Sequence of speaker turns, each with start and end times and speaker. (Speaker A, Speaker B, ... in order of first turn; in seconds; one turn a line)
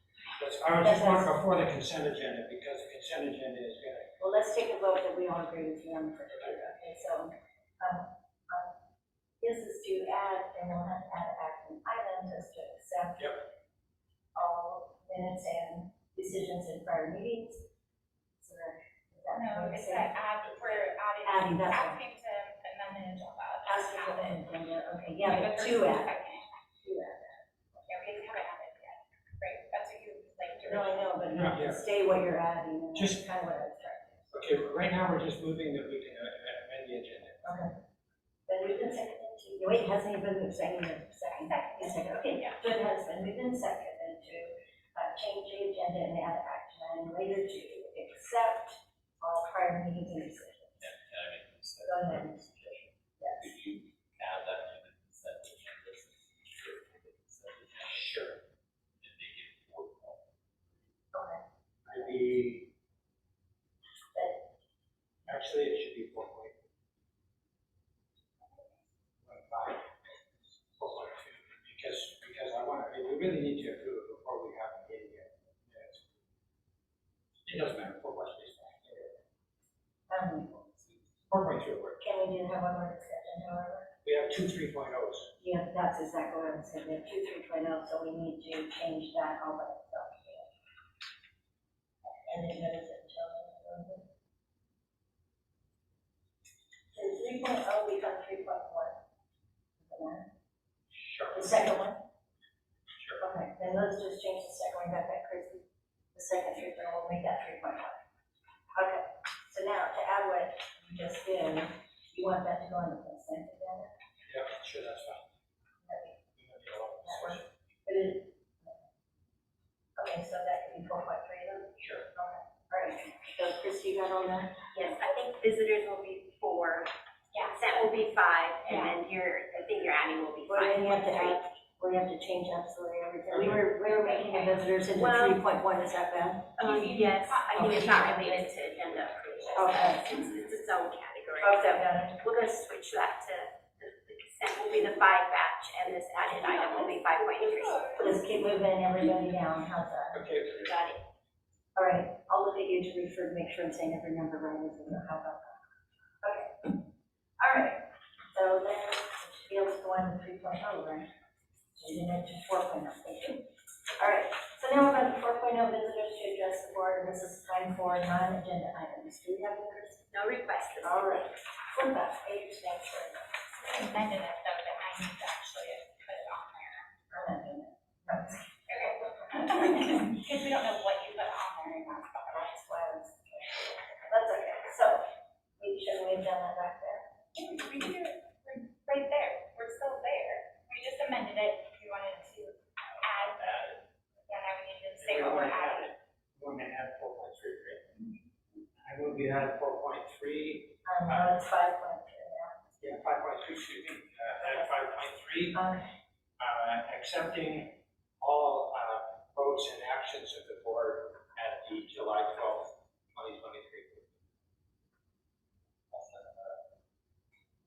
Speaker A: 0.4-4.1
Speaker B: 0.8-1.4
Speaker B: 4.2-8.7
Speaker B: 9.4-13.4
Speaker B: 14.3-17.6
Speaker B: 18.4-20.1
Speaker C: 19.3-24.4
Speaker B: 21.2-22.0
Speaker B: 23.6-26.1
Speaker C: 25.2-26.4
Speaker B: 26.8-27.8
Speaker C: 27.9-31.2
Speaker B: 30.6-34.4
Speaker A: 31.3-31.8
Speaker A: 32.9-33.2
Speaker A: 34.3-37.5
Speaker B: 37.4-37.8
Speaker B: 38.5-50.9
Speaker C: 41.3-42.6
Speaker D: 50.8-58.2
Speaker B: 51.8-52.4
Speaker B: 53.2-53.5
Speaker A: 57.9-58.4
Speaker D: 59.0-60.2
Speaker B: 61.1-61.4
Speaker A: 61.8-62.7
Speaker B: 64.1-64.4
Speaker A: 65.3-66.6
Speaker A: 69.2-69.9
Speaker A: 70.7-76.1
Speaker A: 77.5-79.2
Speaker B: 80.1-80.7
Speaker A: 81.3-82.0
Speaker B: 82.0-83.9
Speaker A: 84.0-85.3
Speaker B: 85.4-90.5
Speaker B: 92.0-94.0
Speaker B: 96.9-99.0
Speaker B: 99.8-100.3
Speaker A: 100.9-101.5
Speaker B: 101.3-102.0
Speaker B: 103.2-105.6
Speaker B: 106.1-108.0
Speaker B: 108.7-113.9
Speaker A: 114.3-115.2
Speaker B: 115.8-116.2
Speaker A: 116.4-117.5
Speaker B: 117.0-118.8
Speaker B: 120.0-124.6
Speaker E: 124.7-126.9
Speaker C: 127.3-127.7
Speaker E: 127.4-131.4
Speaker C: 128.7-129.0
Speaker B: 130.5-136.5
Speaker E: 133.3-133.6
Speaker E: 134.9-135.4
Speaker E: 136.6-147.9
Speaker C: 136.6-138.6
Speaker B: 139.5-140.1
Speaker C: 139.8-140.3
Speaker B: 141.4-142.2
Speaker C: 146.4-148.1
Speaker B: 147.9-150.2
Speaker A: 150.1-150.7
Speaker E: 150.6-151.0
Speaker B: 151.8-155.6
Speaker B: 156.2-156.7
Speaker B: 157.4-157.8
Speaker B: 158.3-161.1
Speaker B: 161.7-163.4
Speaker B: 164.0-170.1
Speaker E: 170.1-171.2
Speaker B: 170.8-173.4
Speaker C: 173.6-176.9
Speaker B: 177.1-178.5
Speaker C: 178.7-182.6
Speaker B: 182.3-185.1
Speaker B: 185.6-187.1
Speaker C: 187.3-193.6
Speaker D: 192.9-193.8
Speaker C: 194.3-195.9
Speaker A: 195.0-197.9
Speaker A: 198.8-201.3
Speaker B: 200.8-202.6
Speaker A: 202.8-205.6
Speaker B: 204.4-204.7
Speaker B: 205.5-205.8
Speaker A: 206.4-214.1
Speaker D: 215.9-216.7